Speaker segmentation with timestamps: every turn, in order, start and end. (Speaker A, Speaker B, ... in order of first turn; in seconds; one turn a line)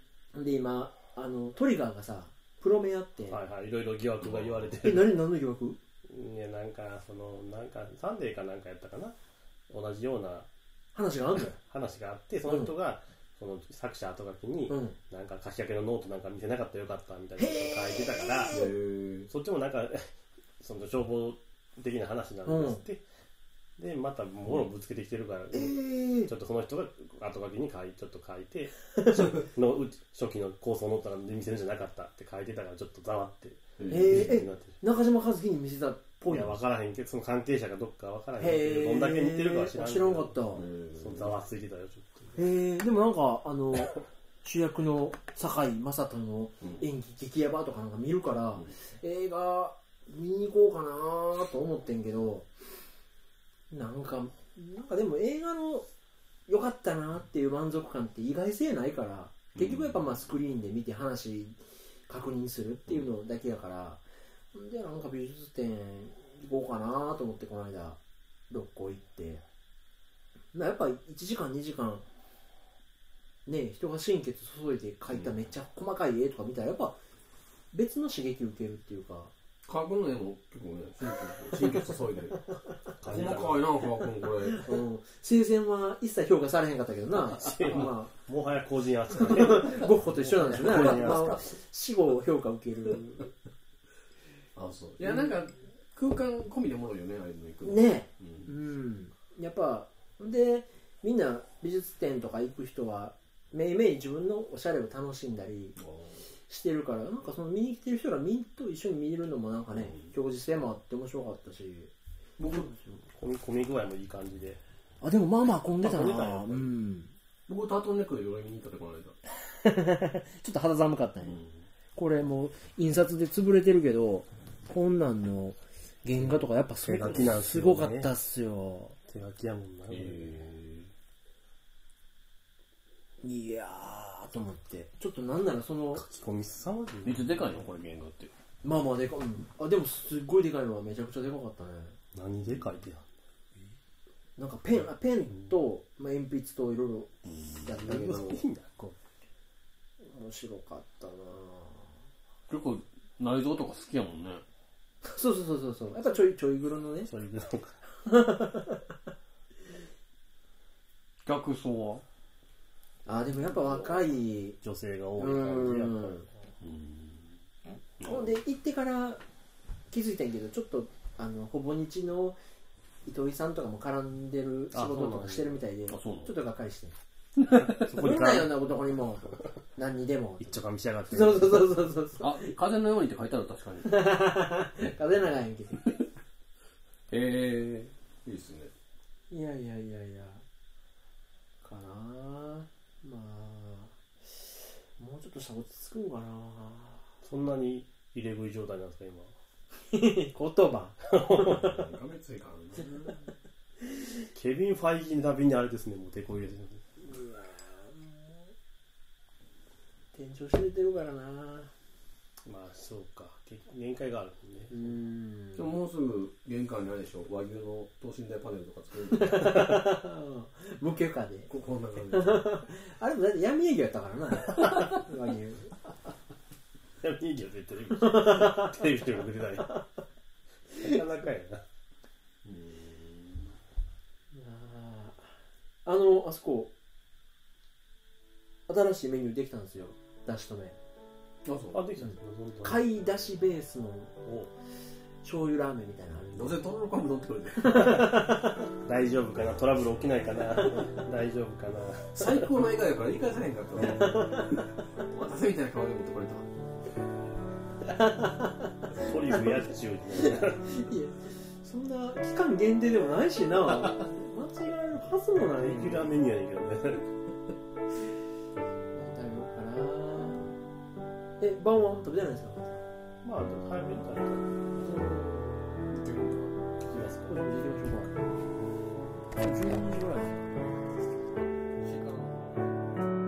Speaker A: 0.3-3.4
Speaker B: 3.3-5.2
Speaker C: 4.2-4.8
Speaker A: 4.8-5.8
Speaker B: 6.1-9.2
Speaker B: 9.7-10.5
Speaker A: 10.9-11.6
Speaker B: 11.6-18.6
Speaker A: 12.5-12.7
Speaker A: 14.7-15.0
Speaker A: 17.4-18.7
Speaker C: 18.5-19.3
Speaker B: 19.3-23.0
Speaker A: 22.5-22.8
Speaker B: 23.8-34.8
Speaker A: 25.5-26.3
Speaker A: 29.0-29.4
Speaker C: 33.8-34.4
Speaker A: 33.9-36.6
Speaker B: 36.3-42.4
Speaker A: 38.4-40.7
Speaker C: 40.5-41.3
Speaker A: 42.4-52.5
Speaker A: 53.7-55.9
Speaker A: 56.5-68.0
Speaker C: 59.5-60.0
Speaker A: 68.5-69.4
Speaker A: 70.5-72.0
Speaker A: 73.5-77.0
Speaker C: 75.1-75.4
Speaker A: 77.7-79.3
Speaker C: 79.7-82.4
Speaker B: 83.0-83.7
Speaker C: 83.0-84.8
Speaker A: 84.5-88.1
Speaker B: 87.2-91.5
Speaker A: 89.1-93.3
Speaker C: 90.7-91.4
Speaker C: 94.5-98.5
Speaker A: 97.6-105.8
Speaker C: 105.8-106.3
Speaker A: 106.5-111.9
Speaker C: 109.7-110.1
Speaker C: 112.4-112.7
Speaker A: 112.5-113.0
Speaker B: 113.1-114.6
Speaker A: 115.0-117.2
Speaker B: 115.8-116.7
Speaker C: 117.5-119.2
Speaker A: 119.4-121.4
Speaker C: 121.2-121.7
Speaker A: 122.0-129.0
Speaker B: 126.8-128.1
Speaker C: 127.0-127.3
Speaker B: 129.1-130.4
Speaker C: 129.9-130.9
Speaker A: 133.2-136.0
Speaker B: 135.9-137.5
Speaker C: 137.0-138.3
Speaker A: 138.6-142.0
Speaker B: 142.1-143.1
Speaker A: 144.4-147.1
Speaker C: 147.2-148.0
Speaker A: 147.6-148.4
Speaker B: 147.8-149.0
Speaker A: 150.0-152.0
Speaker C: 152.5-154.4
Speaker A: 155.0-157.1
Speaker B: 157.1-157.8
Speaker A: 158.1-158.9
Speaker C: 161.2-162.0
Speaker A: 163.1-164.6
Speaker C: 163.6-164.0
Speaker B: 164.6-166.3
Speaker A: 165.2-166.3
Speaker C: 166.6-167.4
Speaker C: 168.0-168.3
Speaker A: 168.0-169.2
Speaker A: 169.9-172.4
Speaker A: 173.1-177.0
Speaker B: 174.7-175.6
Speaker C: 175.9-176.3
Speaker C: 177.4-177.9
Speaker B: 177.6-178.6
Speaker A: 177.8-182.6
Speaker B: 180.4-181.8
Speaker C: 182.2-184.0
Speaker A: 183.8-186.0
Speaker C: 187.1-188.7
Speaker A: 189.3-190.4
Speaker A: 191.6-197.1
Speaker B: 197.2-199.3
Speaker A: 199.9-201.7
Speaker B: 201.1-201.7
Speaker C: 201.5-203.1
Speaker A: 202.8-203.3
Speaker B: 204.3-206.8
Speaker A: 207.0-208.5
Speaker A: 210.1-211.7
Speaker B: 212.4-214.9
Speaker A: 214.7-215.7
Speaker C: 215.6-219.7
Speaker A: 219.1-221.5
Speaker C: 221.5-222.5
Speaker A: 222.1-225.8
Speaker B: 227.0-229.8
Speaker A: 228.0-229.8
Speaker A: 230.8-231.0
Speaker B: 230.8-231.6
Speaker C: 232.4-233.6
Speaker A: 234.3-236.7
Speaker A: 238.7-240.8
Speaker C: 241.4-241.8
Speaker B: 241.7-242.8
Speaker A: 242.0-244.2
Speaker B: 244.2-244.5
Speaker A: 245.2-246.6
Speaker C: 246.3-247.9
Speaker A: 247.6-248.7
Speaker B: 247.8-252.4
Speaker C: 252.1-256.5
Speaker A: 253.8-254.6
Speaker A: 257.9-266.1
Speaker B: 258.9-260.7
Speaker B: 265.5-267.1
Speaker A: 268.9-270.6
Speaker A: 271.4-272.8
Speaker B: 273.2-274.6
Speaker A: 274.8-275.6
Speaker C: 275.9-276.6
Speaker B: 276.8-277.4
Speaker A: 277.3-278.1
Speaker A: 279.4-280.5
Speaker C: 281.8-282.7